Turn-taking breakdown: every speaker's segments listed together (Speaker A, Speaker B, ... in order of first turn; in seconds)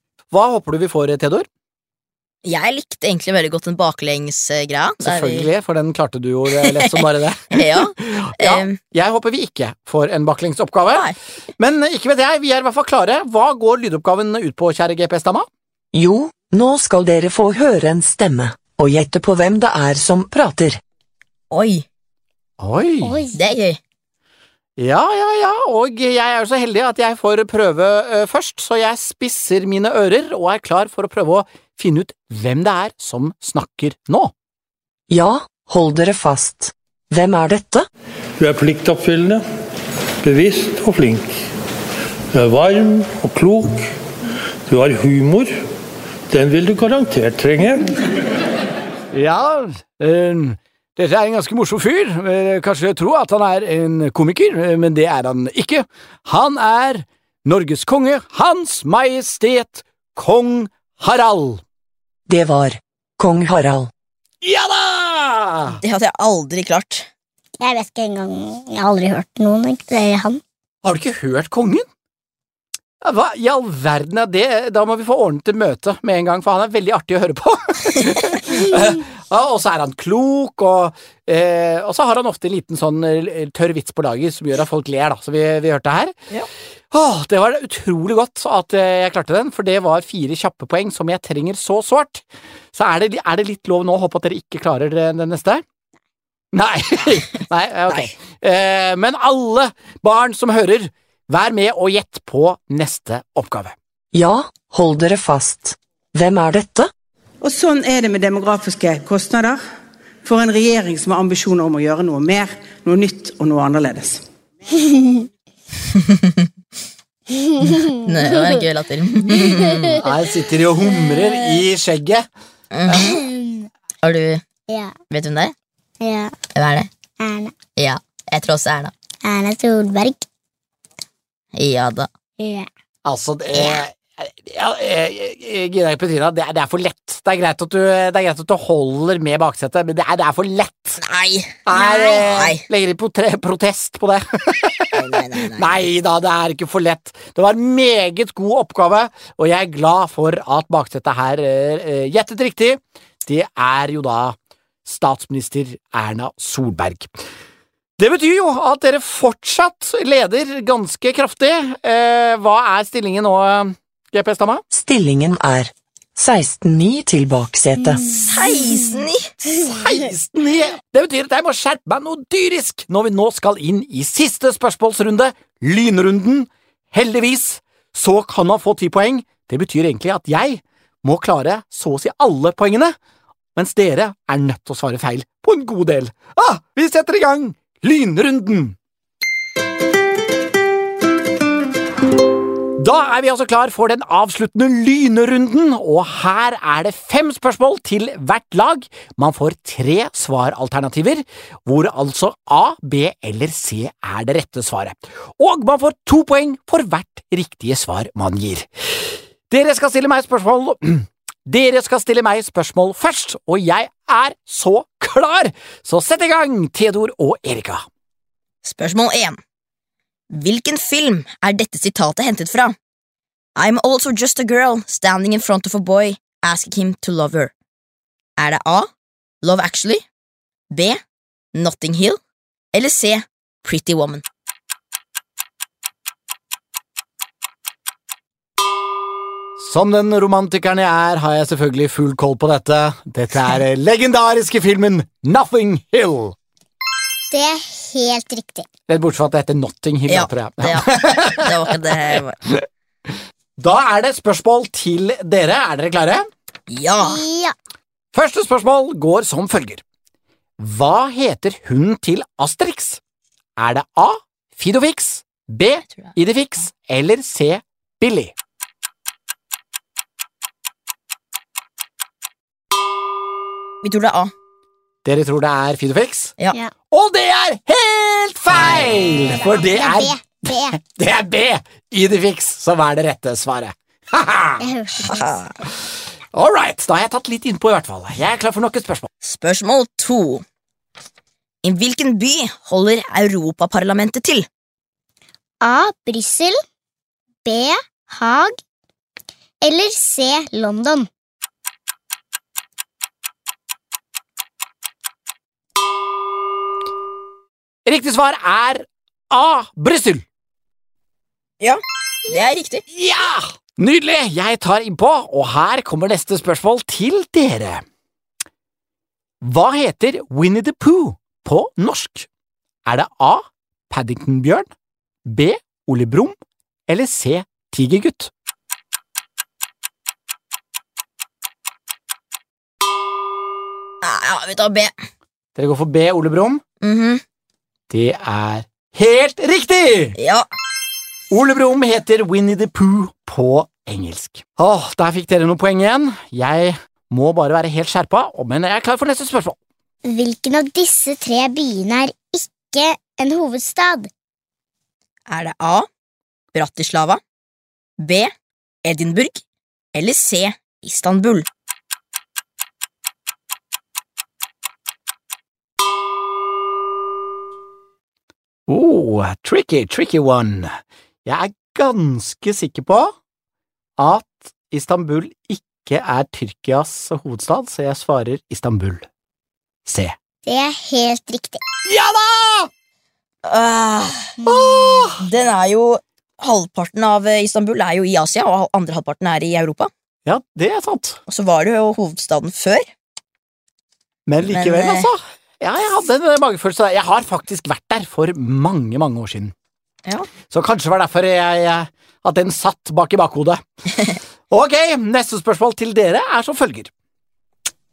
Speaker A: 0.3-1.5, 5.0-15.5, 22.6-23.2, 24.8-34.3, 49.1-61.6, 64.4-65.8, 70.8-71.9, 73.0-86.2, 86.9-95.6, 96.5-103.8, 120.0-122.2, 122.9-123.2, 133.1-141.0, 141.7-157.1, 158.0-164.6, 169.5-182.9, 183.6-188.8, 192.8-217.8, 239.6-246.4, 248.9-252.7, 253.6-256.3, 258.1-259.8, 260.6-263.0, 263.6-268.3, 275.1-276.4, 276.9-284.7, 286.3-289.1, 307.9-310.2, 312.9-317.8, 319.4-322.3, 322.9-324.7, 325.3-326.4, 326.9-328.3, 335.6-336.6, 337.9-340.1, 341.3-349.6, 368.7-373.1, 374.0-379.1, 379.9-380.1, 381.9-382.7, 384.5-385.2, 390.3-391.2, 394.3-399.5, 400.5-403.6, 404.5-406.9
Speaker B: 2.5-5.5, 6.5-8.8, 21.5-21.9, 23.3-23.8, 65.8-67.1, 116.0-116.5, 118.0-120.0, 122.7-123.2, 124.0-124.4, 125.1-125.5, 126.5-126.9, 127.8-128.9, 131.6-132.1, 133.5-133.8, 141.0-141.7, 142.2-142.6, 144.9-145.9, 168.3-169.3, 218.6-219.4, 220.3-222.8, 223.6-227.5, 228.4-228.9, 229.4-230.1, 230.7-231.0, 231.6-232.2, 232.7-234.2, 250.1-252.4, 256.7-257.2, 273.8-274.3, 278.5-278.9, 285.0-285.6, 289.2-290.4, 291.6-294.5, 311.6-312.8, 334.0-334.9, 336.8-337.2, 340.2-340.5, 355.3-355.9, 356.5-357.2, 358.0-358.3, 358.9-359.4, 359.9-361.5, 383.4-384.4, 385.2-389.9, 391.3-392.9, 394.4-395.1
Speaker C: 15.9-20.8, 35.1-37.9, 62.3-63.9, 104.1-106.9, 164.7-168.2
Speaker D: 23.0-23.5, 67.6-70.4, 117.3-118.4, 119.3-120.0, 120.9-121.6, 123.0-123.7, 124.7-124.9, 126.0-126.3, 127.2-127.5, 129.2-130.2, 132.4-132.7, 141.7-142.3, 247.3-248.7, 257.0-257.5, 279.4-280.8, 284.6-285.2, 295.6-296.6, 297.4-298.6, 299.6-301.1, 350.1-354.1, 380.5-381.6, 384.4-385.1
Speaker E: 38.4-39.4, 40.2-41.2, 42.3-43.9, 44.7-45.6, 46.3-48.0
Speaker F: 107.4-109.6, 110.2-114.2